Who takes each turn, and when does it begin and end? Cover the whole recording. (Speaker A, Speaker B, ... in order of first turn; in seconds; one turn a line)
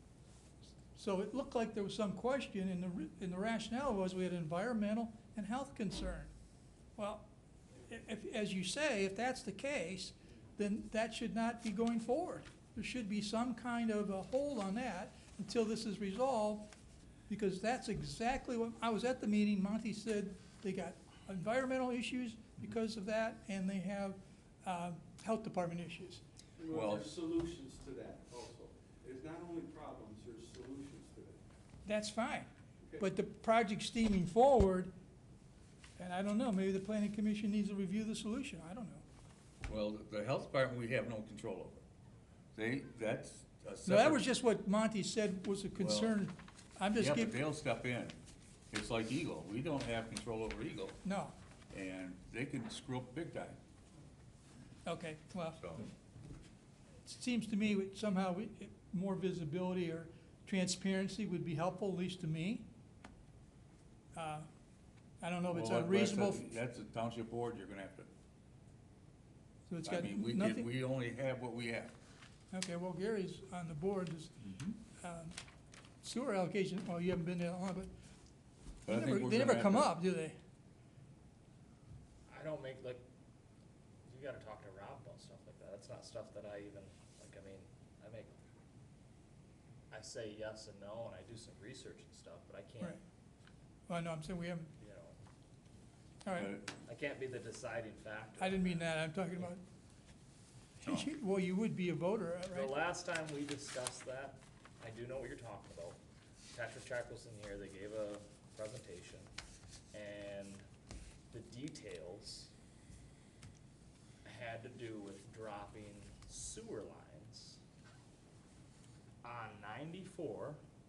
Speaker A: 0.9-6.3
Speaker A: 7.0-7.3
Speaker A: 7.8-16.7
Speaker A: 17.3-26.2
Speaker B: 26.6-31.4
Speaker C: 26.7-27.1
Speaker A: 31.8-34.9
Speaker B: 32.8-33.1
Speaker A: 36.0-39.0
Speaker C: 39.6-41.8
Speaker C: 42.5-44.3
Speaker A: 43.8-47.4
Speaker C: 45.8-46.2
Speaker C: 46.9-48.1
Speaker C: 48.7-51.0
Speaker A: 51.0-51.3
Speaker C: 51.7-53.6
Speaker A: 54.8-55.6
Speaker C: 55.5-55.9
Speaker A: 57.0-62.7
Speaker A: 64.1-64.5
Speaker A: 65.2-66.4
Speaker C: 65.5-68.1
Speaker A: 69.7-70.7
Speaker C: 69.8-71.9
Speaker A: 72.5-74.3
Speaker C: 74.4-74.7
Speaker A: 75.0-75.3
Speaker A: 76.0-77.9
Speaker C: 78.8-80.0
Speaker A: 78.8-80.4
Speaker D: 82.3-83.0
Speaker D: 84.0-88.3
Speaker D: 89.9-93.0
Speaker A: 93.9-94.7
Speaker D: 94.8-95.2
Speaker A: 96.2-96.5
Speaker C: 96.3-96.7
Speaker D: 96.8-99.5
Speaker A: 98.4-99.6
Speaker A: 100.8-102.8
Speaker C: 100.8-101.1
Speaker D: 102.5-106.0
Speaker D: 106.5-109.3
Speaker D: 109.9-110.6
Speaker D: 111.3-112.5
Speaker D: 114.2-117.6
Speaker D: 119.2-120.6